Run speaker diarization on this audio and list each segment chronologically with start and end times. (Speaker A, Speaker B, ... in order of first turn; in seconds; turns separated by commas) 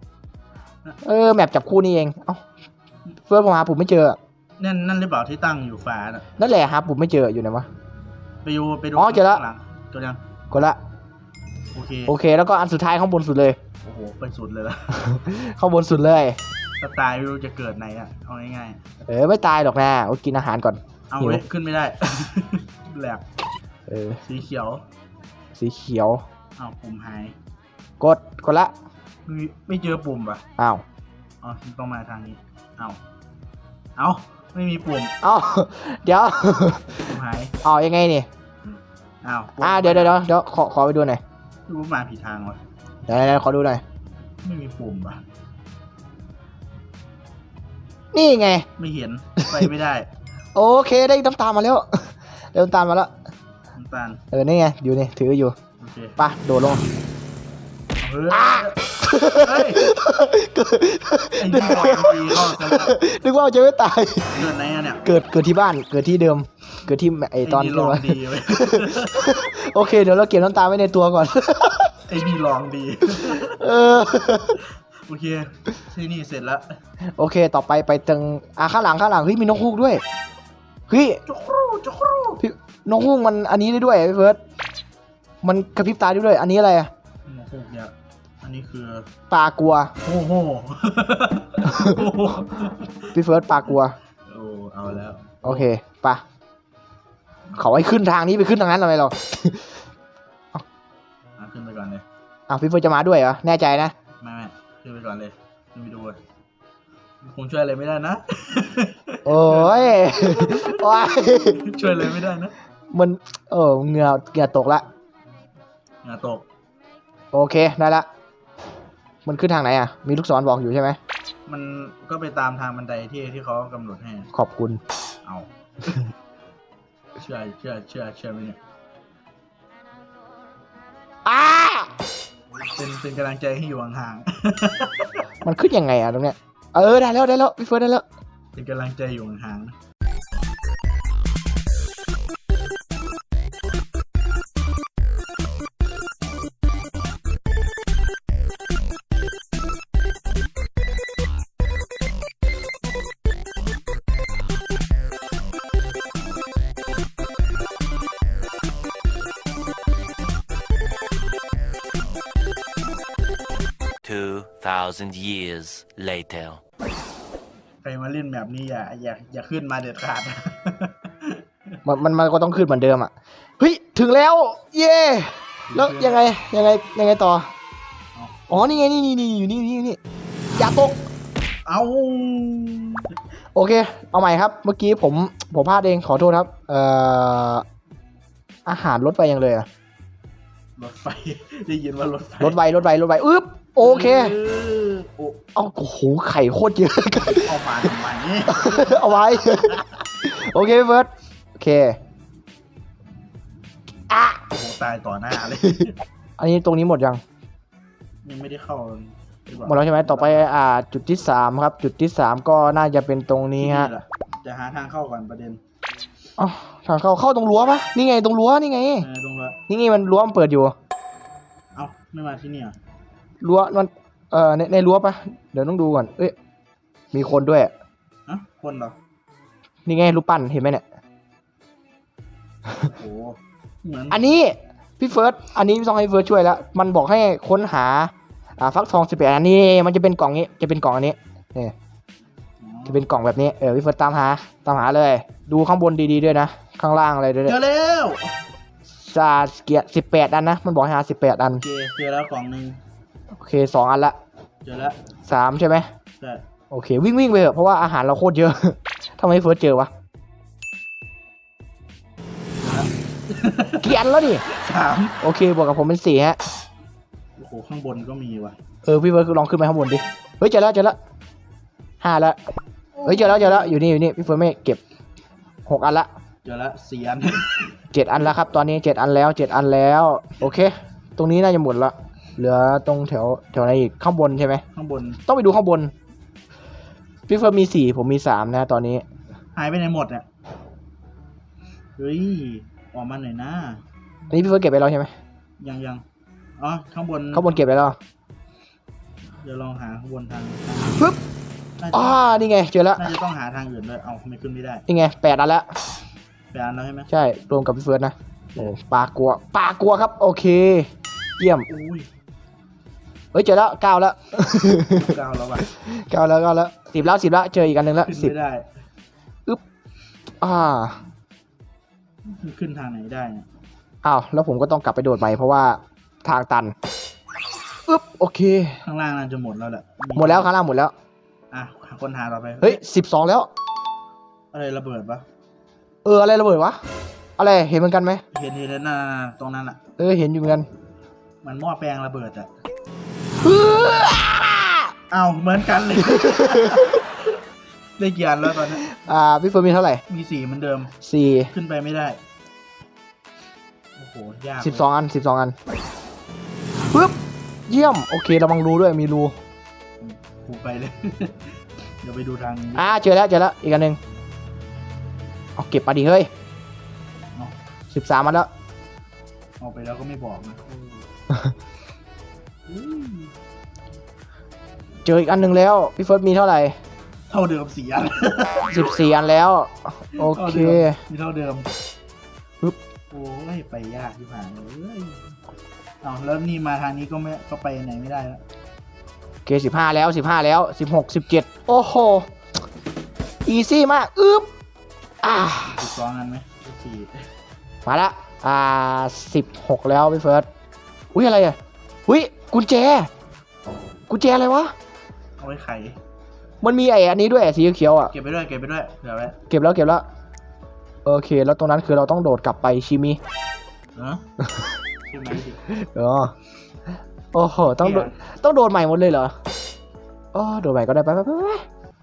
Speaker A: 1.0-2.4, Speaker A: 3.3-4.2, Speaker B: 4.6-6.2, Speaker A: 6.4-7.7, Speaker B: 8.4-10.2, Speaker A: 9.0-9.4, Speaker A: 10.5-10.8, Speaker B: 11.7-12.1, Speaker A: 12.1-13.6, Speaker B: 13.8-15.0, Speaker A: 14.9-16.4, Speaker B: 16.8-18.8, Speaker A: 19.1-21.4, Speaker B: 21.1-23.2, Speaker A: 23.9-24.2, Speaker B: 24.2-24.8, Speaker A: 25.6-26.2, Speaker B: 26.6-27.4, Speaker A: 28.0-28.7, Speaker B: 29.3-30.4, Speaker B: 31.4-33.0, Speaker B: 34.0-35.1, Speaker A: 35.2-37.0, Speaker B: 37.0-37.5, Speaker A: 37.6-38.3, Speaker B: 39.2-40.2, Speaker A: 39.6-41.2, Speaker B: 41.7-42.6, Speaker A: 43.1-43.8, Speaker B: 44.4-45.2, Speaker A: 48.1-48.7, Speaker B: 48.8-50.1, Speaker A: 49.4-49.7, Speaker A: 50.5-53.1, Speaker B: 53.8-54.2, Speaker A: 54.3-55.6, Speaker B: 55.8-56.2, Speaker A: 56.2-56.8, Speaker B: 58.0-58.8, Speaker A: 58.3-64.5, Speaker B: 59.4-59.9, Speaker B: 61.4-63.0, Speaker B: 64.3-65.1, Speaker A: 65.0-71.9, Speaker B: 67.4-69.3, Speaker B: 72.0-73.8, Speaker A: 73.2-74.6, Speaker B: 75.1-76.8, Speaker A: 77.2-80.0, Speaker A: 80.9-81.2, Speaker B: 81.3-82.4, Speaker A: 82.4-84.4, Speaker A: 85.4-86.9, Speaker B: 87.3-89.1, Speaker A: 89.3-89.9, Speaker B: 90.0-93.1, Speaker A: 93.1-94.0, Speaker B: 94.3-95.7, Speaker A: 95.4-96.2, Speaker A: 97.6-99.7, Speaker B: 101.4-102.0, Speaker A: 102.5-103.9, Speaker B: 104.2-106.2, Speaker B: 107.2-112.5, Speaker A: 109.3-111.8, Speaker A: 112.9-114.8, Speaker B: 116.0-116.5, Speaker A: 117.3-118.1, Speaker A: 119.3-121.0, Speaker B: 121.5-124.3, Speaker A: 124.3-124.8, Speaker B: 125.2-126.1, Speaker B: 127.2-128.6, Speaker A: 131.2-131.9, Speaker B: 132.7-135.3, Speaker A: 135.4-138.0, Speaker B: 138.5-139.8, Speaker C: 164.0-166.6, Speaker B: 167.8-171.8, Speaker A: 171.8-177.5, Speaker B: 175.7-176.2, Speaker A: 178.5-180.0, Speaker A: 180.6-181.0, Speaker B: 181.7-183.1, Speaker A: 183.6-187.6, Speaker A: 188.7-189.7, Speaker B: 190.8-192.6, Speaker A: 192.4-194.4, Speaker B: 193.8-195.4, Speaker A: 195.6-197.6, Speaker B: 197.3-199.9, Speaker A: 198.5-202.0, Speaker A: 204.1-204.4, Speaker B: 204.5-206.0, Speaker A: 206.4-207.2, Speaker B: 208.2-210.5, Speaker A: 209.7-213.9, Speaker B: 213.6-215.6, Speaker A: 216.4-219.1, Speaker B: 219.0-219.6, Speaker A: 219.7-220.8, Speaker B: 221.8-222.8, Speaker A: 223.4-226.3, Speaker A: 227.1-227.7, Speaker B: 228.3-228.9, Speaker A: 229.9-230.8, Speaker B: 232.8-234.2, Speaker A: 234.1-241.7, Speaker B: 242.6-243.1, Speaker A: 242.9-247.6, Speaker B: 247.5-248.4, Speaker A: 249.0-251.6, Speaker B: 251.6-252.8, Speaker A: 253.4-254.2, Speaker B: 254.6-255.0, Speaker A: 255.3-255.9, Speaker A: 256.7-259.9, Speaker B: 262.6-265.2, Speaker A: 263.8-264.4, Speaker A: 265.2-266.4, Speaker B: 267.4-268.6, Speaker A: 268.9-271.0, Speaker A: 272.0-272.4, Speaker B: 272.9-273.8, Speaker A: 273.1-274.8, Speaker A: 275.7-276.1, Speaker B: 276.4-277.9, Speaker A: 277.9-284.6, Speaker B: 284.7-285.2, Speaker A: 285.3-285.9, Speaker A: 287.3-289.0, Speaker B: 289.6-290.3, Speaker B: 292.0-293.8, Speaker A: 294.3-295.1, Speaker B: 295.6-296.0, Speaker B: 296.6-297.6, Speaker A: 297.3-298.0, Speaker B: 299.4-301.1, Speaker B: 301.8-302.3, Speaker A: 301.9-303.1, Speaker B: 303.0-304.9, Speaker A: 304.9-305.7, Speaker B: 306.5-307.1, Speaker A: 307.1-311.7, Speaker B: 311.7-312.1, Speaker A: 313.3-315.1, Speaker B: 314.9-315.7, Speaker A: 315.8-318.3, Speaker B: 318.1-318.6, Speaker A: 320.4-321.0, Speaker B: 322.2-323.5, Speaker A: 324.0-326.7, Speaker A: 327.9-328.8, Speaker B: 328.9-330.5, Speaker A: 330.2-330.9, Speaker B: 331.5-332.8, Speaker A: 332.6-333.5, Speaker B: 334.5-335.2, Speaker A: 336.1-336.8, Speaker A: 337.4-338.2, Speaker B: 338.3-339.8, Speaker A: 340.0-340.7, Speaker B: 341.4-342.5, Speaker A: 343.4-344.9, Speaker B: 345.1-347.4, Speaker A: 346.1-346.9, Speaker B: 348.0-348.8, Speaker A: 348.8-350.0, Speaker B: 350.1-350.9, Speaker A: 351.0-351.5, Speaker B: 351.5-352.2, Speaker B: 354.0-354.9, Speaker A: 354.6-355.6, Speaker A: 356.9-357.2, Speaker A: 357.7-359.4, Speaker B: 360.0-362.9, Speaker A: 362.8-364.0, Speaker A: 365.6-366.3, Speaker A: 367.9-368.5, Speaker B: 369.6-371.0, Speaker B: 372.7-373.3, Speaker A: 375.1-376.8, Speaker B: 377.3-378.9, Speaker A: 378.7-381.0, Speaker B: 380.2-381.7, Speaker B: 383.1-385.4, Speaker B: 386.0-388.4, Speaker A: 389.5-392.3, Speaker A: 393.4-394.5, Speaker A: 395.2-395.8, Speaker B: 395.6-397.3, Speaker A: 397.9-400.5, Speaker A: 401.1-403.1, Speaker A: 404.1-404.7, Speaker B: 405.4-406.0, Speaker A: 406.6-408.1, Speaker B: 408.1-409.4, Speaker A: 409.5-410.0, Speaker A: 411.1-413.2, Speaker B: 414.0-414.2, Speaker A: 414.4-414.7, Speaker B: 415.1-415.6, Speaker A: 415.7-416.3, Speaker A: 417.3-419.3, Speaker B: 417.8-418.2, Speaker A: 420.3-421.6